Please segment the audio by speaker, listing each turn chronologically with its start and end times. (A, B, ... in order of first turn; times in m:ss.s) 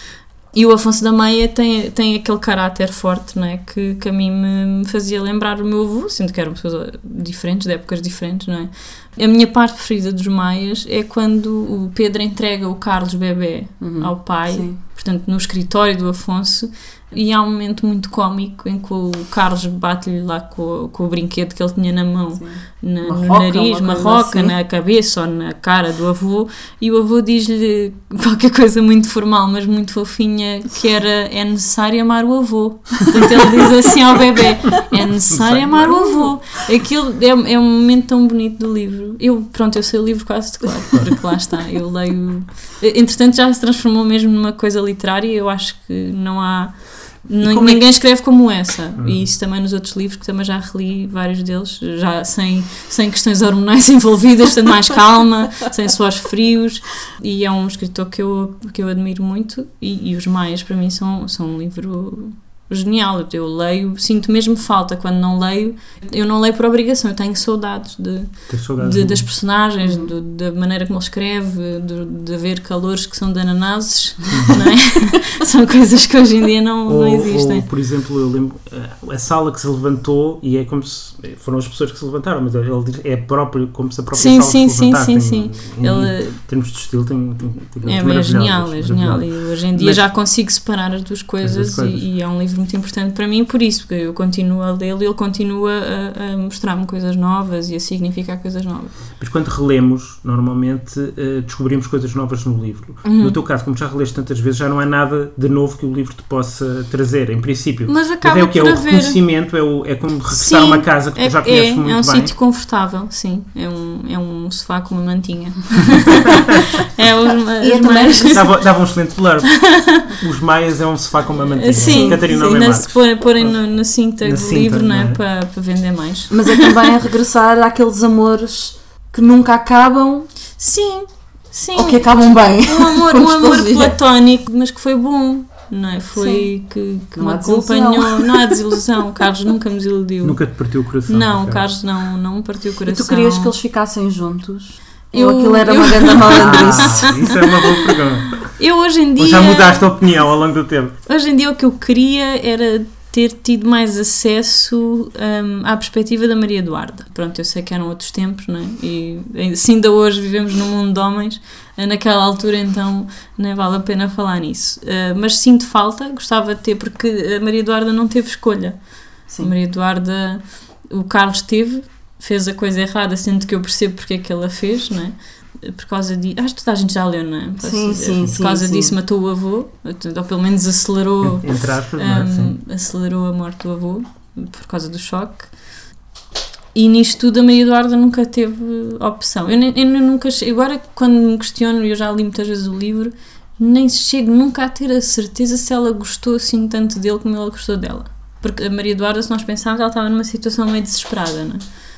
0:00.5-1:17.7 A
0:13.8-0:14.8 B
0:22.4-0:24.6 B
0:35.3-0:36.3 C
0:47.4-0:47.8 C
0:49.0-0:49.2 C
1:08.5-1:09.4 C
1:09.8-1:10.1 B
1:14.3-1:14.6 C
1:16.9-1:30.0 C
1:24.1-1:26.4 A
1:27.8-1:38.9 A
1:31.4-1:32.1 C
1:39.2-1:52.3 C
1:43.0-1:43.4 A
1:47.9-1:49.2 A
1:50.3-1:58.5 A
1:57.6-1:58.5 B
1:58.2-2:03.5 C
1:59.5-2:00.1 A
2:01.5-2:06.9 A
2:01.7-2:02.6 B
2:04.2-2:05.2 C
2:06.3-2:10.3 B
2:10.6-2:12.0 A
2:11.7-2:14.0 B
2:12.6-2:20.4 A
2:16.2-2:16.5 B
2:17.2-2:18.6 B
2:20.2-2:21.7 C
2:21.1-2:23.5 A
2:22.9-2:27.2 B
2:25.1-2:27.7 A
2:26.1-2:28.6 C
2:28.4-2:29.9 A
2:29.2-2:31.0 C
2:31.0-3:05.5 A
2:57.6-2:59.0 B
3:01.2-3:02.6 C
3:06.7-3:21.6 A